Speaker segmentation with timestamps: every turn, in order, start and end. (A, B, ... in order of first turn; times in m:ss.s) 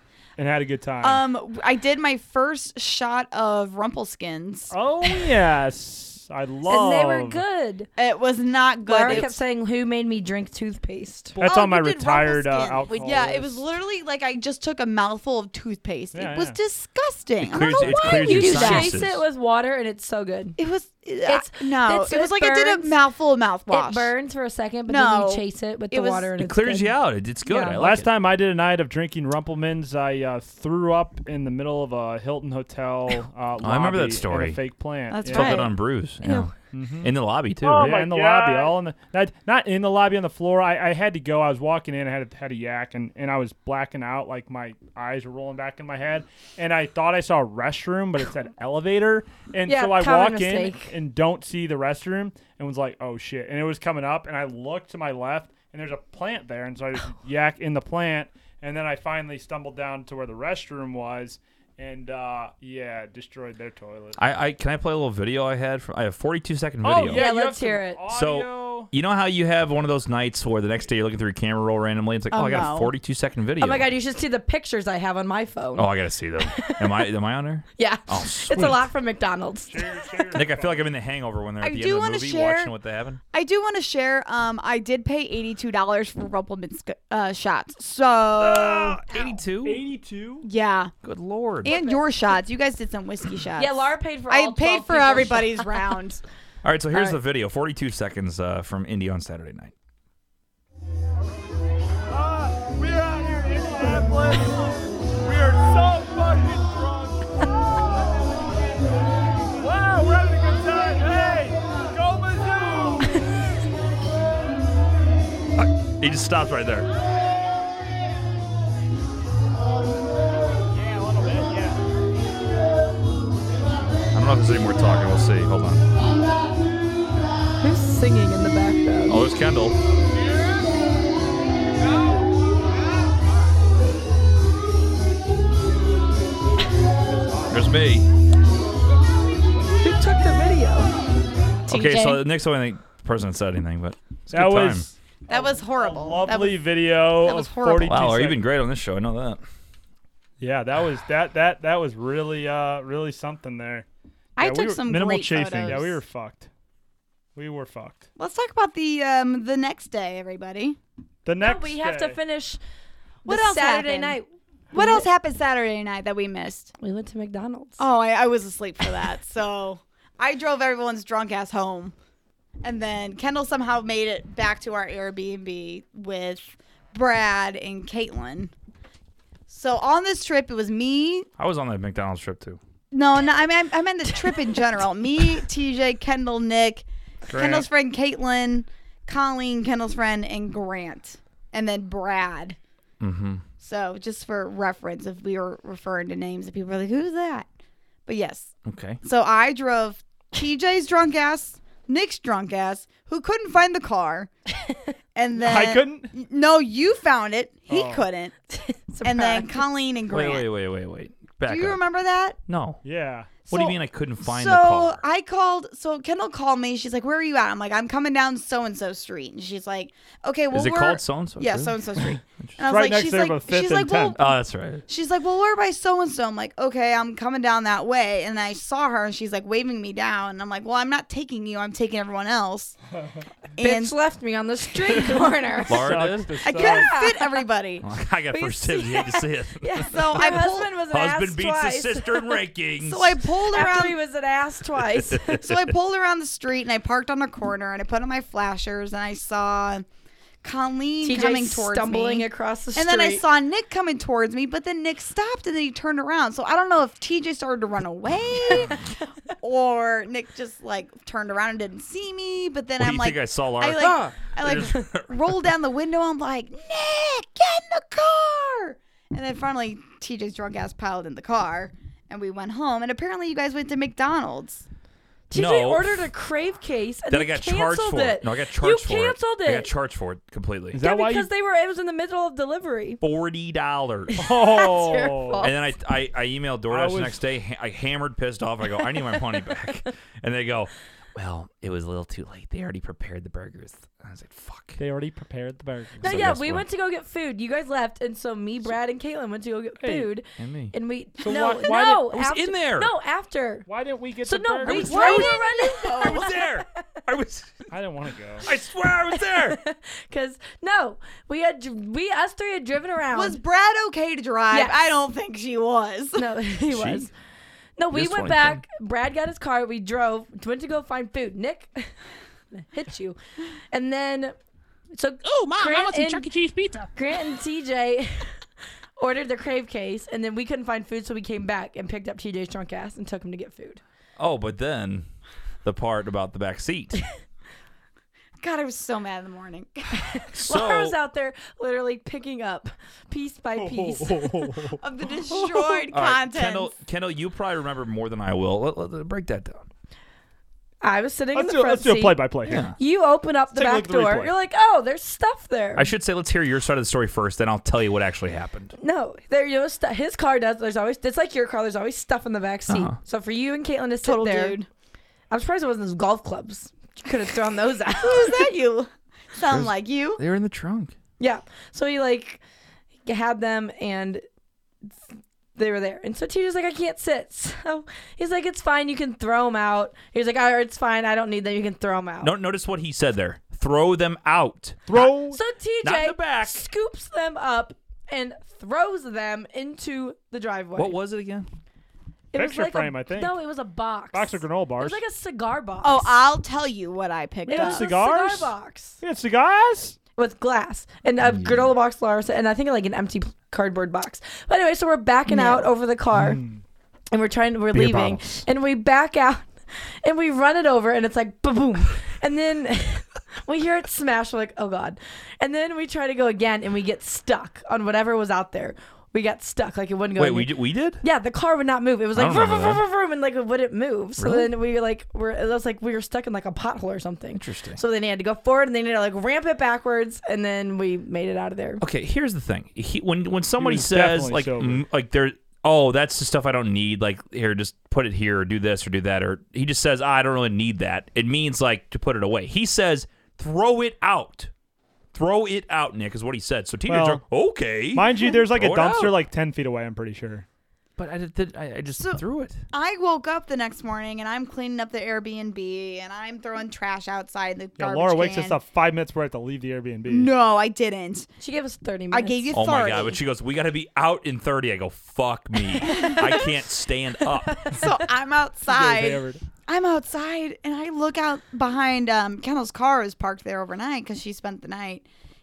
0:00.4-0:01.2 A
0:01.0-0:04.7 B
0:04.7-0:07.4 A
0:06.7-0:07.9 C
0:08.0-0:09.4 B
0:08.9-0:11.4 C
0:11.4-0:13.7 A
0:11.4-0:19.0 B
0:16.1-0:16.6 A
0:17.4-0:19.2 D
0:17.7-0:20.6 C
0:20.6-0:24.1 B
0:21.3-0:23.0 C
0:23.7-0:27.0 C
0:24.9-0:26.3 B
0:26.4-0:28.1 D
0:27.5-0:27.8 C
0:27.8-0:35.7 A
0:33.6-0:34.6 D
0:35.1-0:35.7 B
0:35.3-0:36.5 D
0:36.7-0:37.1 A
0:37.0-0:37.9 D
0:37.7-1:04.2 A
0:37.8-0:38.7 E
0:49.7-0:50.9 C
1:04.2-1:07.3 D
1:06.8-1:08.9 A
1:07.1-1:08.0 C
1:08.1-1:13.9 D
1:12.3-1:12.9 B
1:13.6-1:17.0 C
1:15.8-1:18.9 D
1:17.8-1:20.3 C
1:19.7-1:20.9 A
1:20.3-1:23.2 D
1:21.6-1:22.7 B
1:23.3-1:29.0 B
1:28.4-1:29.8 D
1:29.6-1:30.5 A
1:30.4-1:30.9 B
1:31.0-1:31.8 D
1:31.6-1:36.2 B
1:31.6-1:32.2 C
1:33.6-1:35.7 C
1:36.6-1:39.7 D
1:42.1-1:47.5 A
1:49.6-1:53.2 A
1:55.6-1:56.9 D
2:00.7-2:01.8 A
2:04.1-2:05.8 D
2:07.6-2:09.3 C
2:09.1-2:09.8 D
2:17.2-2:17.5 A
2:17.5-2:18.1 D
2:19.8-2:20.9 C
2:21.7-2:24.9 D
2:21.7-2:22.2 B
2:24.3-2:28.4 A
2:25.3-2:28.1 B
2:27.8-2:29.4 D
2:30.4-2:33.9 A
2:34.4-2:36.0 B
2:34.4-2:36.5 A
2:37.4-2:38.1 A
2:38.2-2:40.8 B
2:41.2-2:42.2 A
2:41.4-2:42.6 C
2:43.2-2:45.1 C
2:43.3-2:44.2 B
2:44.7-2:46.7 B
2:46.8-2:47.8 C
2:47.8-2:51.9 B
2:52.6-2:58.5 B
2:59.5-3:01.3 B
3:01.4-3:02.6 D
3:02.9-3:12.6 B
3:07.3-3:07.7 A
3:13.0-3:13.4 D
3:13.6-3:17.5 B
3:18.1-3:24.3 B
3:18.7-3:19.0 D
3:25.2-3:28.3 B
3:25.4-3:26.1 A
3:27.7-3:28.1 A
3:28.5-3:29.6 C
3:29.0-3:30.4 B
3:30.1-3:31.8 D
3:31.5-3:32.4 B
3:32.5-3:32.8 D
3:32.8-3:33.3 A
3:33.5-3:35.0 D
3:33.5-3:44.2 B
3:40.5-3:42.6 D
3:42.6-3:44.2 A
3:44.2-3:44.9 D
3:44.9-3:52.8 B
3:53.6-3:54.0 B
3:53.6-3:56.0 C
3:54.9-3:55.3 B
3:55.7-3:56.4 D
3:55.7-3:56.9 A
3:56.4-3:57.8 B
3:56.5-3:57.4 C
3:57.8-3:59.9 D
3:58.8-4:02.4 C
3:59.8-4:00.8 B
4:00.9-4:03.2 D
4:02.8-4:04.0 B
4:03.5-4:05.4 C
4:04.8-4:05.6 D
4:05.4-4:09.8 B
4:10.4-4:18.8 B
4:11.0-4:13.2 C
4:19.4-4:34.6 B
4:22.8-4:25.4 D
4:23.8-4:24.6 C
4:35.3-4:39.7 C
4:35.3-4:36.1 D
4:37.1-4:40.8 D
4:40.7-4:41.3 A
4:40.8-4:43.0 C
4:43.0-4:44.3 D
4:44.2-4:45.5 A
4:44.2-4:45.5 C
4:45.4-4:54.8 D
4:46.7-4:47.2 A
4:54.8-4:56.4 A
4:56.0-4:56.7 D
4:56.0-5:03.7 C
4:59.8-5:00.1 A
5:00.4-5:00.7 D
5:01.2-5:02.0 A
5:01.6-5:02.9 D
5:03.7-5:05.3 A
5:04.2-5:06.6 C
5:04.6-5:06.4 B
5:04.7-5:07.7 D
5:07.7-5:08.5 A
5:08.4-5:09.6 D
5:09.1-5:13.4 C
5:13.1-5:16.3 B
5:14.5-5:14.8 C
5:16.2-5:17.1 C
5:16.7-5:17.1 D
5:17.8-5:21.9 C
5:17.9-5:18.6 D
5:22.5-5:23.2 C
5:23.7-5:24.4 C
5:24.9-5:26.3 C
5:25.4-5:26.9 E
5:27.0-5:28.3 C
5:29.0-5:33.8 C
5:34.2-5:35.1 D
5:35.6-5:37.0 D
5:38.4-5:40.0 B
5:40.2-5:44.6 C
5:40.3-5:41.0 D
5:43.5-5:45.7 A
5:44.8-5:46.7 B
5:45.9-5:49.7 D
5:50.8-5:55.9 C
5:51.3-5:52.6 A
5:52.5-5:52.8 D
5:53.5-5:54.3 A
5:55.8-5:58.7 D
5:58.8-6:04.6 C
6:02.7-6:03.0 D
6:04.0-6:04.7 B
6:05.3-6:08.5 C
6:08.0-6:10.2 B
6:09.5-6:11.0 D
6:11.2-6:12.4 C
6:13.0-6:14.2 C
6:15.6-6:22.3 C
6:22.2-6:25.2 D
6:24.9-6:25.4 A
6:25.3-6:31.0 C
6:25.8-6:26.7 D
6:30.8-6:31.5 D
6:32.3-6:36.2 C
6:32.3-6:33.4 A
6:34.1-6:35.0 A
6:35.8-6:37.9 B
6:37.5-6:39.0 C
6:37.5-6:40.0 A
6:40.2-6:46.4 C
6:41.2-6:41.7 D
6:46.2-6:46.6 A
6:47.1-6:49.5 C
6:47.7-6:48.4 D
6:50.0-7:11.8 C
7:00.2-7:01.0 D
7:02.1-7:02.8 D
7:04.2-7:04.5 D
7:07.4-7:07.8 D
7:11.8-7:24.5 D
7:13.6-7:14.8 A
7:25.1-7:29.2 D
7:26.9-7:27.2 A
7:27.9-7:30.5 A
7:31.0-7:32.6 D
7:32.0-7:38.6 B
7:37.8-7:40.3 A
7:40.1-7:41.3 B
7:41.4-7:42.5 C
7:42.1-7:43.2 B
7:42.5-7:47.8 D
7:45.8-7:46.4 B
7:47.5-7:47.9 C
7:47.7-7:55.0 B
7:48.7-7:49.4 A